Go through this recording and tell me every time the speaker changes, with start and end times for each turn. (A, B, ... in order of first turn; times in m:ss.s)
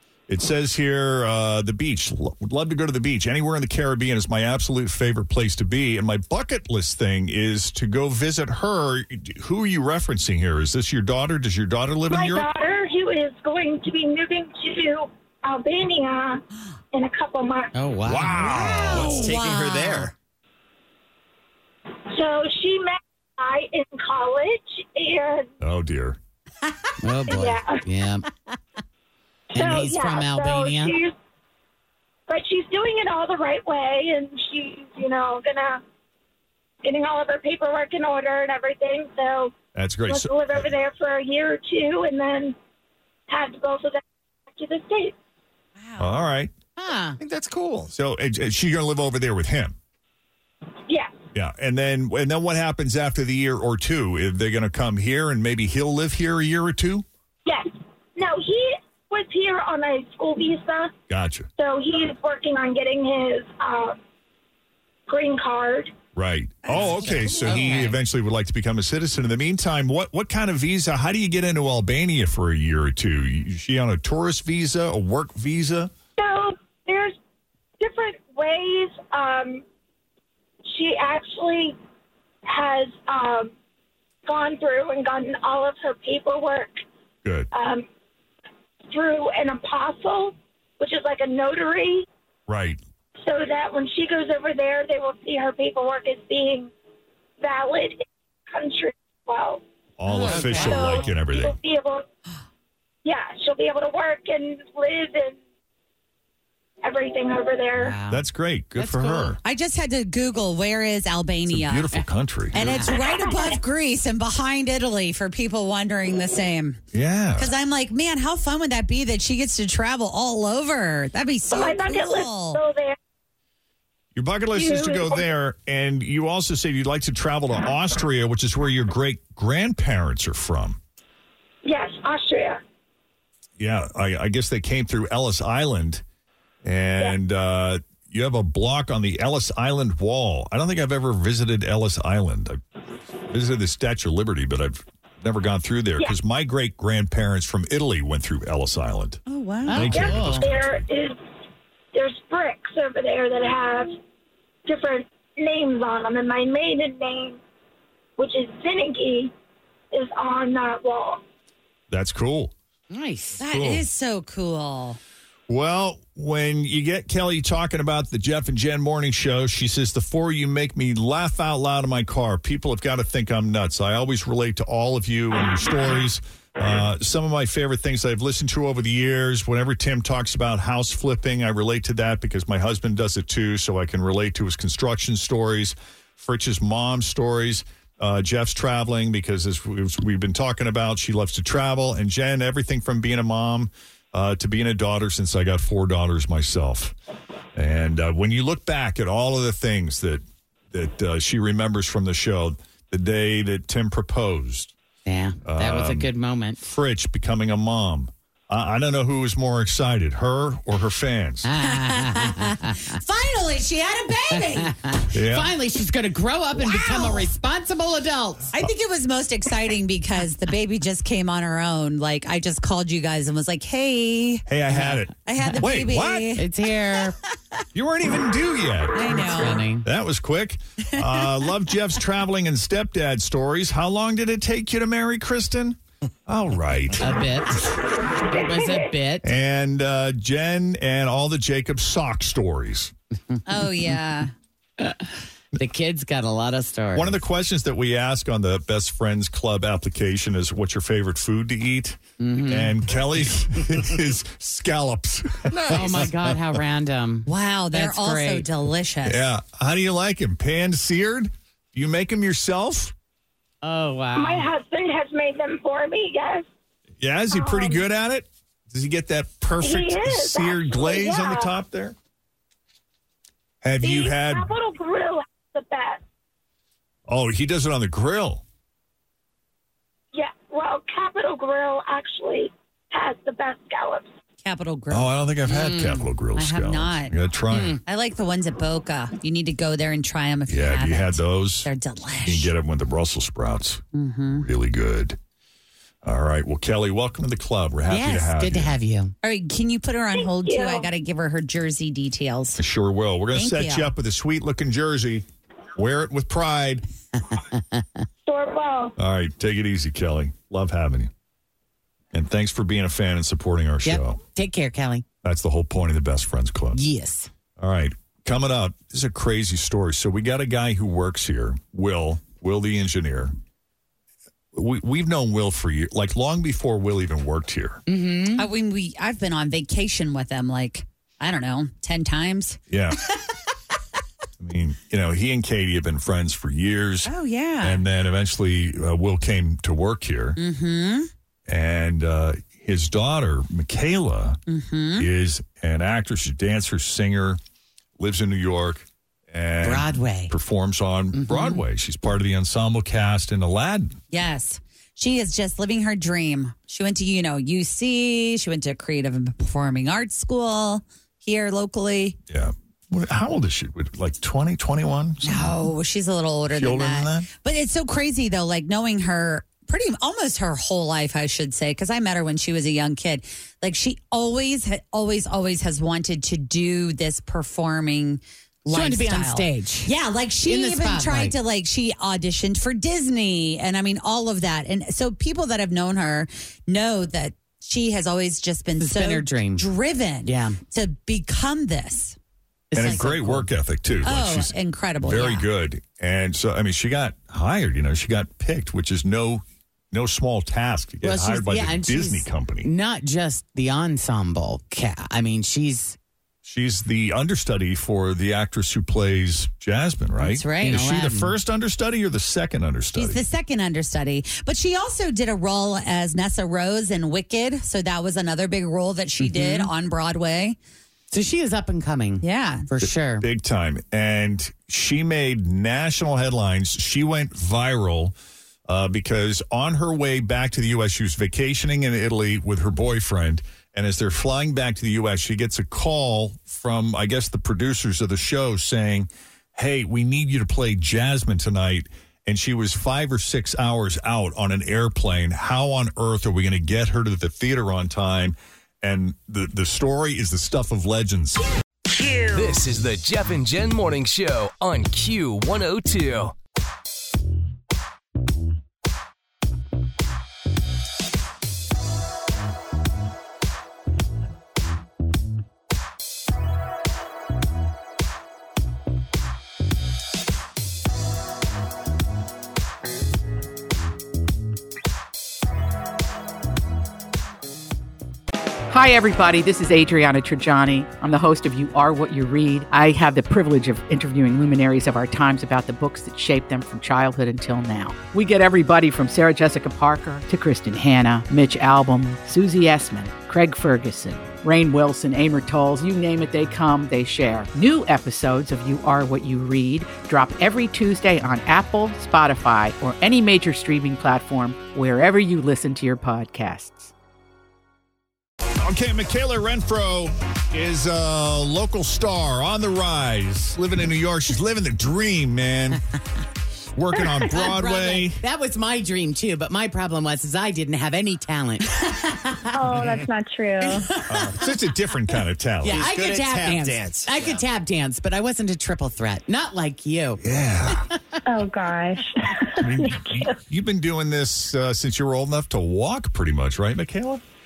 0:00.3-0:12.5 A
0:12.1-0:17.7 B
0:17.7-0:18.6 C
0:18.1-0:19.3 A
0:18.5-0:20.1 D
0:18.9-0:20.1 E
0:22.1-0:25.5 B
0:25.6-0:26.2 A
0:27.0-0:28.3 C
0:27.3-0:27.8 B
0:29.5-0:31.1 B
0:29.5-0:31.0 C
0:32.3-0:35.8 B
0:36.8-0:39.6 B
0:39.8-0:40.7 A
0:40.1-0:42.6 B
0:43.3-0:44.0 B
0:44.5-0:45.2 B
0:46.0-0:46.5 A
0:46.8-0:47.2 C
0:47.2-0:47.9 E
0:47.9-0:49.8 A
0:50.9-0:51.2 B
0:51.3-0:57.1 A
0:57.5-1:00.9 B
1:01.1-1:01.5 A
1:01.6-1:04.0 B
1:05.1-1:05.9 B
1:06.2-1:15.9 A
1:06.7-1:07.7 D
1:06.8-1:08.0 C
1:16.2-1:17.2 B
1:17.8-1:19.6 B
1:20.7-1:21.8 B
1:22.5-1:23.5 B
1:24.3-1:26.8 B
1:27.2-1:27.5 A
1:27.5-1:27.9 B
1:28.9-1:32.1 B
1:32.5-1:32.8 A
1:33.2-1:36.7 B
1:37.4-1:39.6 B
1:40.0-1:41.6 A
1:40.1-1:41.1 C
1:40.4-1:40.9 D
1:40.5-1:42.0 B
1:43.0-1:45.4 B
1:46.8-1:48.0 B
1:47.8-1:48.2 C
1:48.1-1:49.4 A
1:48.8-1:49.4 C
1:49.4-1:52.0 D
1:51.5-1:52.7 A
1:52.5-1:56.8 D
1:52.6-1:53.0 C
1:52.9-1:53.6 B
1:56.9-1:57.5 A
1:57.4-2:02.6 D
2:01.5-2:03.0 B
2:04.2-2:10.8 A
2:04.5-2:05.2 B
2:11.6-2:12.6 B
2:13.6-2:16.0 A
2:16.6-2:22.6 A
2:23.3-2:30.9 A
2:29.3-2:30.1 D
2:29.6-2:30.5 C
2:29.8-2:31.2 B
2:31.9-2:34.0 B
2:34.7-2:37.4 B
2:38.2-2:39.3 B
2:39.9-2:41.2 B
2:41.9-2:42.5 A
2:42.9-2:43.4 C
2:43.4-2:43.8 A
2:43.4-2:45.0 D
2:45.5-3:17.0 A
3:17.6-3:24.7 A
3:25.1-3:26.6 C
3:25.4-3:26.1 A
3:26.6-3:31.5 A
3:31.4-3:32.9 C
3:32.0-3:34.7 D
3:34.5-3:38.5 C
3:35.1-3:35.5 A
3:36.6-3:37.3 D
3:38.5-3:44.4 D
3:44.5-3:46.3 A
3:44.7-3:45.0 C
3:45.2-3:46.5 D
3:46.4-3:47.2 C
3:47.8-3:49.2 A
3:49.0-3:49.6 D
3:49.0-3:49.9 C
3:49.8-3:57.1 A
3:57.0-3:59.3 C
3:58.2-3:58.9 B
3:59.2-4:02.9 A
4:03.5-4:04.3 D
4:04.8-4:07.2 C
4:07.0-4:16.6 A
4:12.2-4:12.8 C
4:15.5-4:18.5 C
4:17.3-4:19.2 D
4:19.0-4:22.9 A
4:23.6-4:24.5 C
4:24.2-4:26.5 B
4:27.0-4:32.0 A
4:27.3-4:27.8 B
4:29.6-4:31.5 B
4:33.6-4:34.5 A
4:33.8-4:36.0 B
4:37.1-4:38.4 A
4:40.1-4:44.1 B
4:44.4-4:45.1 D
4:44.9-4:47.8 A
4:45.5-4:46.1 C
4:46.4-4:47.1 D
4:47.5-4:47.8 C
4:47.9-4:52.5 D
4:50.5-4:51.7 A
4:52.2-4:53.8 A
4:53.9-4:54.5 D
4:54.4-4:55.2 A
4:56.0-4:58.8 A
4:57.9-4:59.1 C
4:59.2-5:02.6 D
5:00.1-5:00.9 B
5:02.6-5:06.8 A
5:03.3-5:03.9 D
5:07.3-5:08.0 C
5:08.3-5:09.0 B
5:09.0-5:11.1 A
5:12.1-5:14.2 A
5:13.8-5:15.0 C
5:15.2-5:16.8 A
5:16.7-5:17.3 C
5:17.6-5:23.4 A
5:24.5-5:27.8 A
5:27.9-5:28.5 C
5:28.4-5:32.6 D
5:32.7-5:33.0 A
5:34.4-5:37.1 A
5:37.0-5:37.8 D
5:37.6-5:40.4 A
5:40.4-5:41.1 D
5:41.5-5:44.4 A
5:44.5-5:45.1 D
5:45.0-5:47.4 A
5:48.0-5:54.0 A
5:49.6-5:50.3 C
5:51.1-5:51.6 C
5:54.1-6:02.2 D
6:02.3-6:05.6 A
6:05.2-6:32.2 D
6:06.5-6:07.3 A
6:18.7-6:19.9 C
6:20.5-6:21.4 C
6:28.8-6:29.7 C
6:30.2-6:30.6 C
6:32.7-6:33.5 C
6:32.8-6:42.7 A
6:34.0-6:35.5 D
6:41.0-6:46.0 C
6:46.4-6:53.2 A
6:50.2-6:50.8 D
6:50.6-6:51.4 C
6:53.0-7:00.6 D
6:59.2-6:59.7 C
7:01.1-7:03.3 C
7:02.2-7:02.7 D
7:03.2-7:08.1 A
7:08.7-7:31.4 A
7:32.3-7:36.3 F
7:58.7-8:26.9 G
8:28.6-8:35.8 A
8:36.8-8:38.2 A
8:37.3-8:42.5 C
8:42.5-8:43.9 H
8:43.9-8:44.3 C
8:44.1-8:45.9 A
8:45.6-8:50.2 C
8:45.7-8:47.4 E
8:50.2-8:50.9 A
8:51.3-8:53.4 H
8:52.6-8:57.2 A